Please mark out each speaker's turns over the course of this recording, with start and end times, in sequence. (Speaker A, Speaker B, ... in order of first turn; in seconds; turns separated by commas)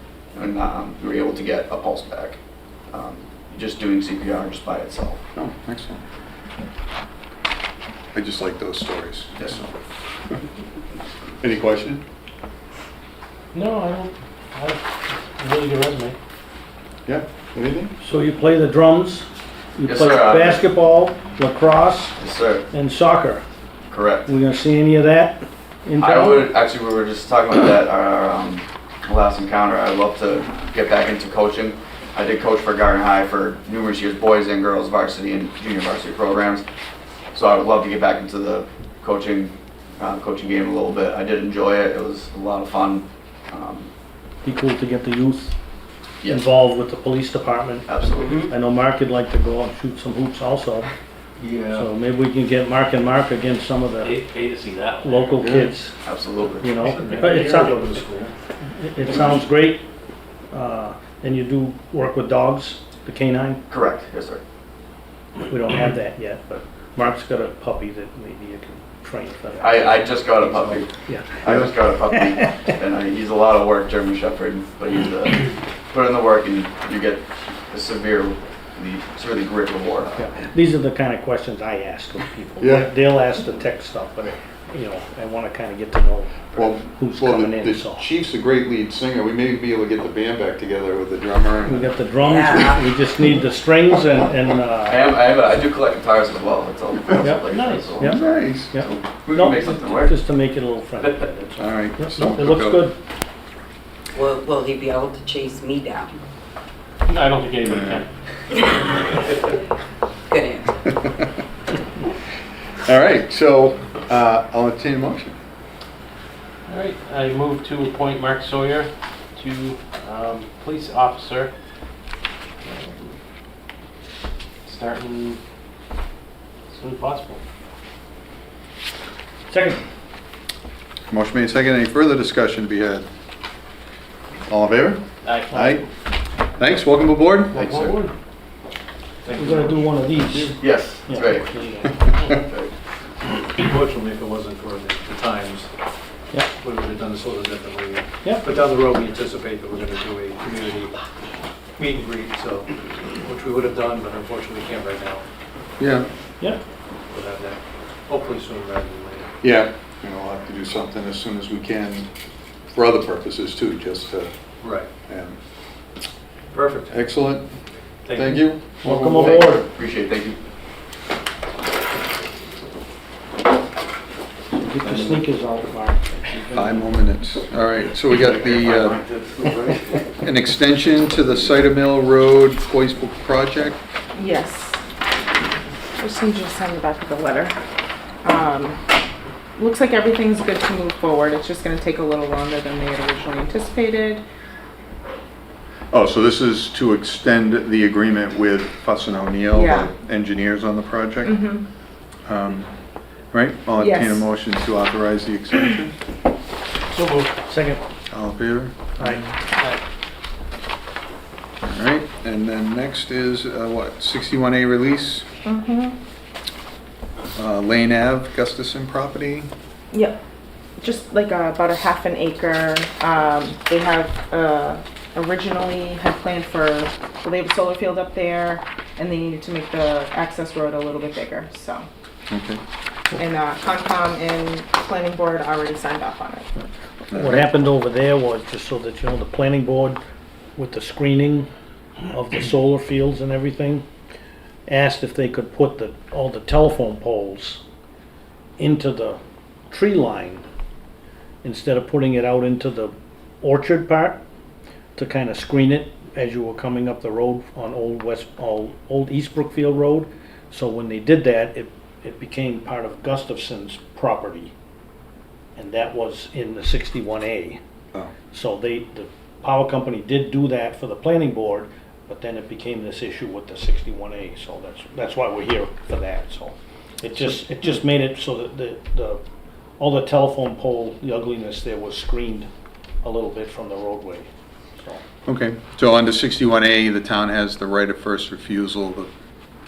Speaker A: 0.3-2.4, Speaker A: 2.9-5.2, Speaker B: 5.3-6.0, Speaker B: 8.1-9.8, Speaker B: 11.4-12.0, Speaker C: 13.5-16.2, Speaker B: 17.1-17.9, Speaker D: 18.0-22.2, Speaker A: 19.9-20.6, Speaker A: 22.2-22.7, Speaker D: 22.7-23.4, Speaker A: 23.9-24.3, Speaker D: 24.3-26.5, Speaker A: 26.0-36.6, Speaker A: 37.3-43.9, Speaker D: 44.5-45.5, Speaker D: 46.3-50.9, Speaker A: 47.9-48.5, Speaker E: 51.4-51.9, Speaker D: 51.7-54.2, Speaker E: 54.0-55.1, Speaker D: 55.0-56.0, Speaker B: 55.4-55.7, Speaker A: 56.0-56.7, Speaker D: 56.6-58.0, Speaker E: 56.8-58.3, Speaker D: 58.7-59.9, Speaker D: 60.5-63.6, Speaker A: 63.7-64.4, Speaker D: 65.5-72.7, Speaker A: 69.6-70.9, Speaker A: 71.4-80.2, Speaker D: 80.2-88.1, Speaker B: 82.6-82.9, Speaker B: 86.6-91.9, Speaker D: 91.7-95.0, Speaker F: 92.2-92.8, Speaker A: 94.9-100.2, Speaker D: 97.2-103.0, Speaker C: 97.5-98.0, Speaker B: 98.0-98.8, Speaker B: 101.6-102.9, Speaker F: 104.1-106.2, Speaker C: 107.1-108.1, Speaker F: 110.3-110.9, Speaker B: 112.8-115.4, Speaker C: 116.7-121.5, Speaker C: 122.6-123.1, Speaker C: 124.7-125.4, Speaker C: 126.7-127.4, Speaker D: 129.5-129.8, Speaker B: 131.1-133.1, Speaker B: 134.5-135.9, Speaker C: 135.2-135.7, Speaker D: 135.5-135.8, Speaker B: 136.6-137.6, Speaker C: 137.5-138.1, Speaker A: 137.5-138.0, Speaker E: 139.2-139.9, Speaker D: 139.3-142.2, Speaker A: 140.6-141.5, Speaker A: 142.3-142.7, Speaker E: 143.5-145.7, Speaker E: 146.6-150.9, Speaker E: 151.8-155.2, Speaker B: 155.8-156.1, Speaker E: 157.1-159.3, Speaker B: 159.4-162.1, Speaker B: 162.7-164.3, Speaker E: 164.6-164.9, Speaker B: 165.1-165.4, Speaker E: 166.5-167.0, Speaker B: 166.9-167.5, Speaker E: 168.1-168.4, Speaker B: 168.1-169.5, Speaker D: 168.7-169.7, Speaker A: 169.2-170.4, Speaker D: 174.5-176.9, Speaker B: 174.8-175.2, Speaker B: 176.5-179.0, Speaker D: 179.4-179.7, Speaker B: 180.2-183.8, Speaker G: 184.2-184.8, Speaker G: 186.0-187.5, Speaker G: 188.2-188.8, Speaker G: 189.6-194.2, Speaker B: 195.9-201.4, Speaker G: 199.5-199.9, Speaker G: 201.2-201.7, Speaker B: 202.3-202.7, Speaker B: 203.3-205.9, Speaker G: 203.8-204.3, Speaker D: 206.9-207.8, Speaker B: 208.1-209.3, Speaker D: 209.0-209.2, Speaker B: 211.6-215.3, Speaker G: 215.4-216.0, Speaker B: 217.3-219.5, Speaker G: 219.9-220.2, Speaker G: 220.8-231.9, Speaker B: 232.3-232.6, Speaker G: 233.1-236.5, Speaker D: 237.1-240.0, Speaker B: 237.1-237.4, Speaker D: 240.6-241.5, Speaker D: 242.1-243.8, Speaker D: 244.7-247.6, Speaker D: 248.6-249.2, Speaker D: 249.7-250.4, Speaker D: 251.4-254.2, Speaker D: 255.0-264.5, Speaker D: 265.6-267.6, Speaker D: 268.3-279.2, Speaker D: 279.8-282.5, Speaker D: 283.0-285.0, Speaker B: 285.3-289.1